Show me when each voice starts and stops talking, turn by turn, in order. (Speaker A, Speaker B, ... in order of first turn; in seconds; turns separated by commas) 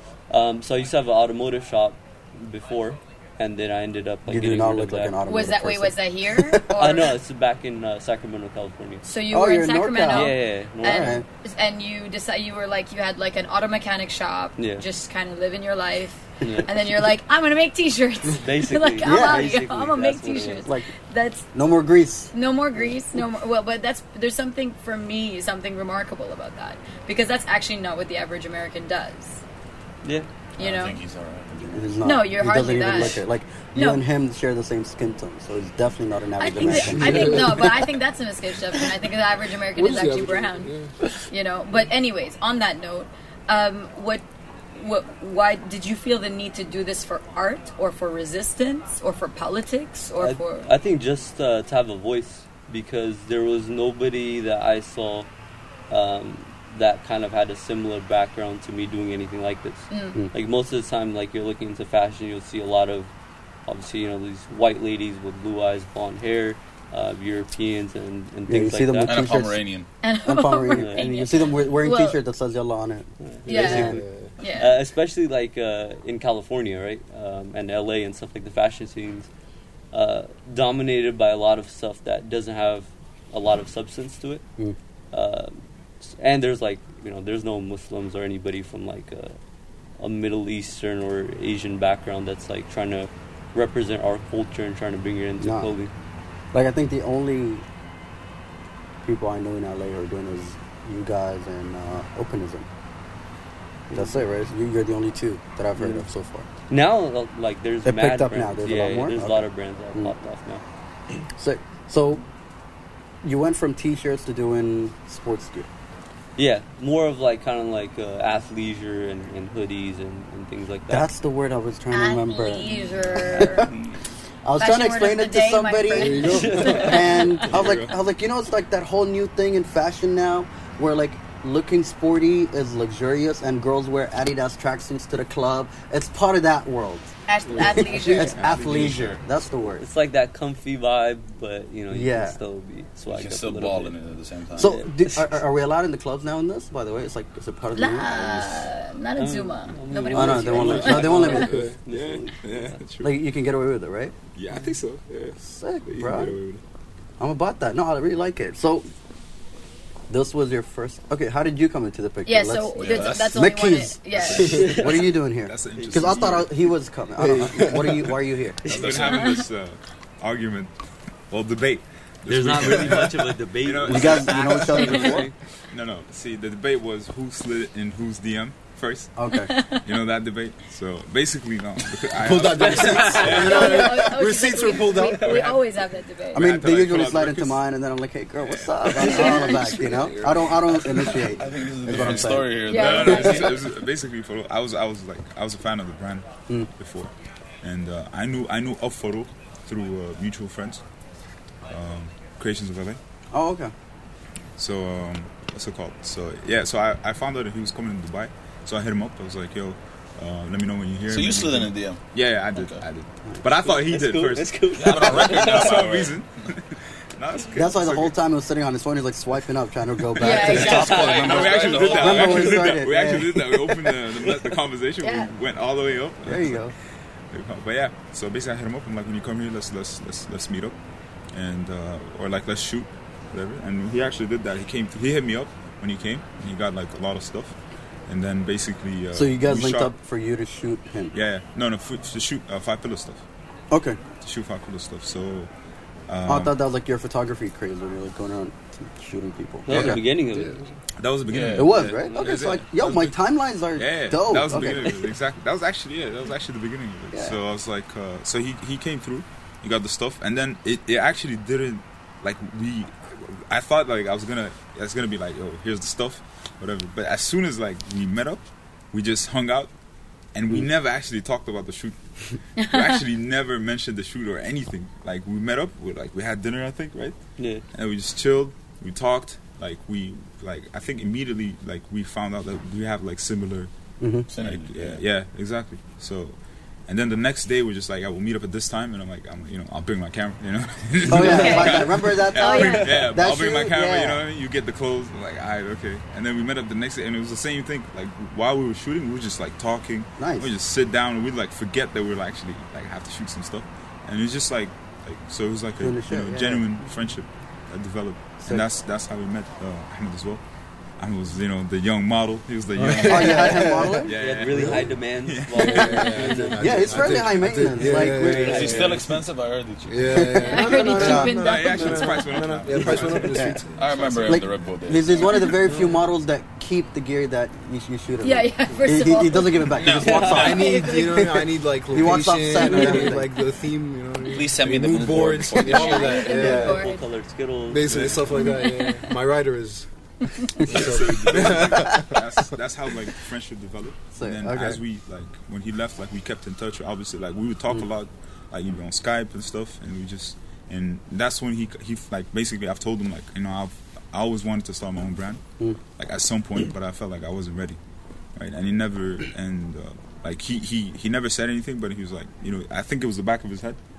Speaker A: 0.3-5.2, Speaker B: 4.3-6.6, Speaker C: 5.2-7.2, Speaker A: 6.8-9.1, Speaker C: 9.0-21.5, Speaker B: 9.3-11.2, Speaker A: 10.1-11.2, Speaker A: 14.6-14.8, Speaker A: 16.4-16.7, Speaker A: 18.4-20.7, Speaker B: 19.0-19.6, Speaker B: 20.6-20.9, Speaker B: 21.5-22.3, Speaker C: 22.3-29.4, Speaker C: 30.6-31.0, Speaker D: 30.6-32.0, Speaker B: 31.7-37.7, Speaker C: 32.0-33.2, Speaker C: 33.8-34.0, Speaker C: 36.4-40.7, Speaker E: 36.7-37.8, Speaker E: 39.7-41.0, Speaker C: 41.3-50.7, Speaker A: 50.2-55.3, Speaker A: 55.9-63.1, Speaker C: 59.9-60.2, Speaker A: 63.6-69.2, Speaker B: 68.5-69.7, Speaker D: 69.0-69.9, Speaker C: 70.0-72.2, Speaker B: 70.2-74.0, Speaker A: 70.7-71.1, Speaker A: 73.2-74.0, Speaker E: 73.5-74.3, Speaker C: 73.5-74.8, Speaker A: 74.6-79.3, Speaker A: 79.9-84.4, Speaker A: 85.1-89.4, Speaker A: 90.0-95.9, Speaker B: 95.4-95.7, Speaker B: 96.5-97.6, Speaker B: 99.0-102.7, Speaker B: 103.9-106.5, Speaker A: 105.8-106.0, Speaker A: 106.7-110.6, Speaker B: 107.8-110.1, Speaker B: 111.3-112.2, Speaker B: 113.2-115.7, Speaker A: 116.4-121.1, Speaker B: 120.9-123.7, Speaker C: 121.9-123.7, Speaker B: 124.4-139.8, Speaker C: 124.6-127.3, Speaker E: 125.9-127.1, Speaker A: 126.3-127.2, Speaker F: 127.5-127.9, Speaker C: 137.3-138.4, Speaker F: 138.2-139.1, Speaker D: 138.4-139.2, Speaker A: 139.8-144.0, Speaker B: 141.9-142.4, Speaker D: 143.1-144.8, Speaker B: 144.5-148.7, Speaker A: 144.6-145.2, Speaker C: 147.7-151.4, Speaker A: 149.2-152.8, Speaker B: 150.1-151.6, Speaker F: 150.8-153.2, Speaker E: 151.4-151.7, Speaker B: 153.0-154.1, Speaker F: 154.3-156.6, Speaker B: 155.4-156.4, Speaker B: 157.2-158.9, Speaker B: 160.1-168.6, Speaker C: 162.2-164.9, Speaker D: 162.7-163.4, Speaker F: 164.3-164.9, Speaker F: 165.4-166.6, Speaker A: 165.8-166.2, Speaker E: 167.2-168.1, Speaker F: 168.6-170.7, Speaker D: 168.7-169.3, Speaker C: 169.1-169.4, Speaker F: 171.3-179.2, Speaker A: 172.3-175.3, Speaker B: 173.8-175.3, Speaker B: 179.2-179.5, Speaker C: 179.4-179.8, Speaker F: 179.8-184.0, Speaker E: 182.2-185.5, Speaker A: 182.6-183.4, Speaker C: 183.2-186.5, Speaker F: 185.2-185.5, Speaker B: 186.3-192.5, Speaker F: 186.3-187.6, Speaker F: 188.4-189.7, Speaker C: 189.0-189.9, Speaker D: 191.1-193.7, Speaker F: 191.9-200.8, Speaker C: 192.6-193.6, Speaker F: 201.7-203.0, Speaker B: 203.3-203.7, Speaker F: 204.6-218.1, Speaker D: 211.1-212.8, Speaker A: 213.6-215.8, Speaker D: 214.8-216.2, Speaker B: 217.5-223.7, Speaker C: 220.2-221.9, Speaker F: 220.2-226.7, Speaker D: 220.4-222.6, Speaker A: 220.5-222.1, Speaker C: 225.0-225.3, Speaker B: 226.2-226.7, Speaker F: 227.3-230.7, Speaker F: 231.3-237.6, Speaker F: 238.1-239.9, Speaker B: 239.1-241.2, Speaker F: 241.1-243.2, Speaker B: 243.7-244.0, Speaker F: 244.1-245.5, Speaker F: 246.1-246.5, Speaker B: 246.2-250.0, Speaker A: 249.7-250.6, Speaker F: 249.7-250.0, Speaker E: 250.3-250.6, Speaker F: 251.0-253.2, Speaker D: 251.3-251.9, Speaker B: 251.5-255.1, Speaker F: 253.8-269.7, Speaker F: 270.3-272.0, Speaker F: 272.6-277.2, Speaker C: 272.7-273.0, Speaker A: 277.4-277.6, Speaker F: 277.7-283.7, Speaker B: 284.0-284.3, Speaker D: 284.3-285.0, Speaker F: 284.4-310.4, Speaker B: 291.1-294.2, Speaker C: 291.2-293.1, Speaker B: 300.2-300.5, Speaker B: 305.8-306.7, Speaker F: 311.0-316.3, Speaker E: 312.7-315.0, Speaker B: 313.0-314.1, Speaker A: 314.1-316.8, Speaker E: 315.6-319.2, Speaker B: 316.6-318.9, Speaker A: 317.8-319.0, Speaker D: 318.3-320.3, Speaker E: 319.9-324.4, Speaker B: 320.1-321.4, Speaker C: 320.4-322.3, Speaker F: 321.3-323.4, Speaker B: 323.3-323.6, Speaker D: 323.8-325.7, Speaker B: 324.2-333.3, Speaker C: 328.2-329.8, Speaker D: 329.7-330.7, Speaker A: 330.1-330.4, Speaker E: 330.1-336.9, Speaker C: 330.6-331.2, Speaker D: 334.2-336.4, Speaker C: 335.6-337.0, Speaker B: 336.3-336.8, Speaker A: 336.4-338.2, Speaker E: 337.7-339.9, Speaker F: 337.9-338.2, Speaker C: 338.3-339.1, Speaker E: 340.6-342.2, Speaker F: 340.6-355.4, Speaker B: 344.1-344.8, Speaker F: 356.0-357.8, Speaker F: 358.4-363.8